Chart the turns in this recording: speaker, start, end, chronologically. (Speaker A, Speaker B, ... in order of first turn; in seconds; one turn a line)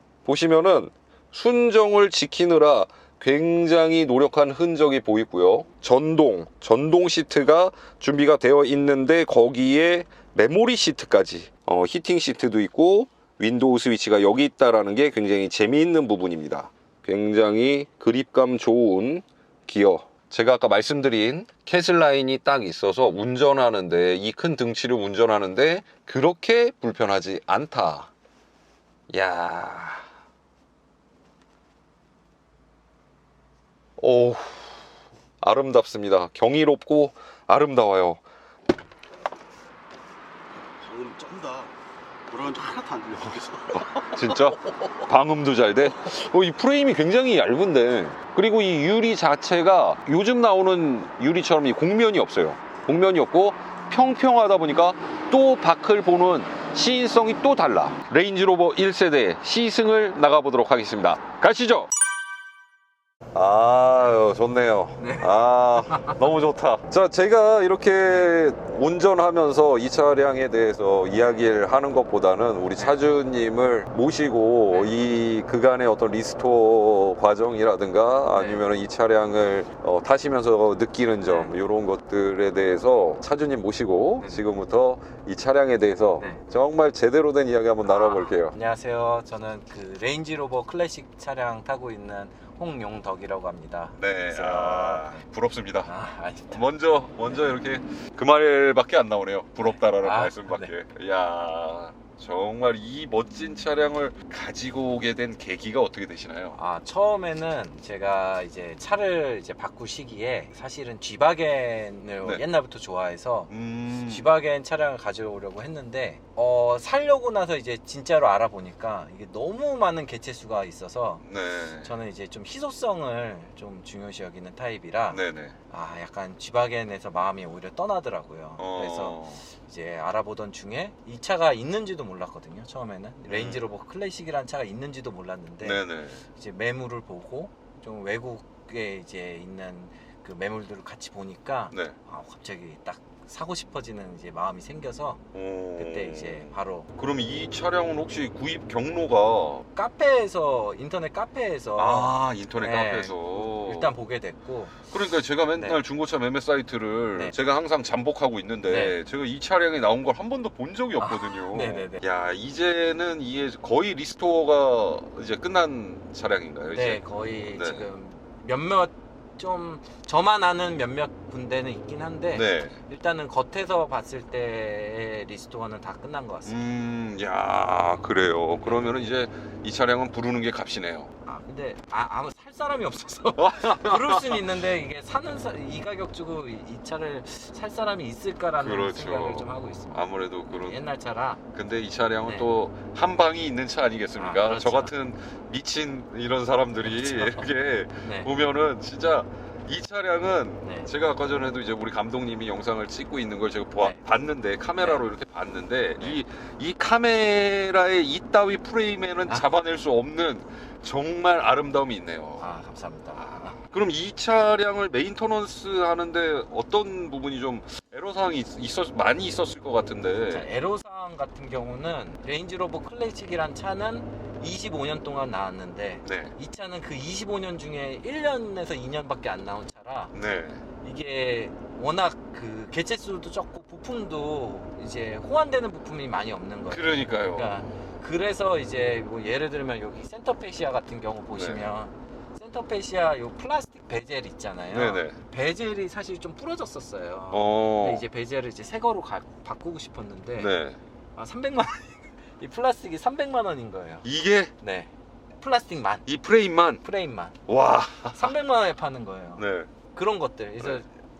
Speaker A: 0.2-28.1
Speaker A: 29.1-30.0
Speaker A: 34.0-34.6
Speaker A: 35.4-38.2
Speaker B: 40.8-41.7
Speaker B: 42.3-44.2
Speaker A: 43.7-61.9
Speaker A: 63.3-88.5
Speaker C: 65.0-65.3
Speaker C: 65.9-66.2
Speaker C: 78.3-78.6
Speaker C: 81.2-81.5
Speaker C: 87.8-95.2
Speaker A: 94.0-95.9
Speaker C: 95.8-96.6
Speaker A: 96.5-106.6
Speaker C: 99.7-100.7
Speaker C: 106.5-113.5
Speaker A: 113.5-114.3
Speaker C: 114.1-121.2
Speaker A: 121.2-121.9
Speaker C: 121.8-135.8
Speaker A: 125.1-125.5
Speaker A: 128.6-129.4
Speaker A: 133.2-133.6
Speaker A: 135.6-136.2
Speaker C: 136.3-145.2
Speaker A: 145.3-149.6
Speaker C: 145.8-146.9
Speaker C: 149.7-154.8
Speaker A: 151.8-153.9
Speaker A: 154.9-167.0
Speaker C: 158.7-158.9
Speaker C: 161.0-162.0
Speaker C: 166.7-176.5
Speaker A: 167.5-167.8
Speaker A: 172.3-172.8
Speaker A: 176.5-181.1
Speaker C: 178.6-179.0
Speaker C: 181.2-191.4
Speaker A: 183.4-184.4
Speaker A: 188.6-190.8
Speaker A: 191.5-212.4
Speaker C: 192.2-192.5
Speaker C: 194.2-194.9
Speaker C: 197.0-197.4
Speaker C: 198.0-198.3
Speaker C: 200.6-200.9
Speaker C: 204.8-205.0
Speaker C: 212.4-213.6
Speaker A: 213.2-220.5
Speaker C: 220.3-230.1
Speaker A: 226.0-226.3
Speaker A: 230.1-230.6
Speaker C: 230.8-250.5
Speaker A: 236.7-237.5
Speaker A: 241.3-241.6
Speaker A: 244.7-245.2
Speaker A: 247.3-248.0
Speaker A: 250.4-250.8
Speaker C: 251.2-254.0
Speaker A: 254.0-254.5
Speaker C: 254.6-256.1
Speaker A: 256.1-256.8
Speaker C: 256.8-257.4
Speaker A: 257.5-258.3
Speaker C: 258.1-259.4
Speaker A: 259.4-259.7
Speaker C: 259.9-260.9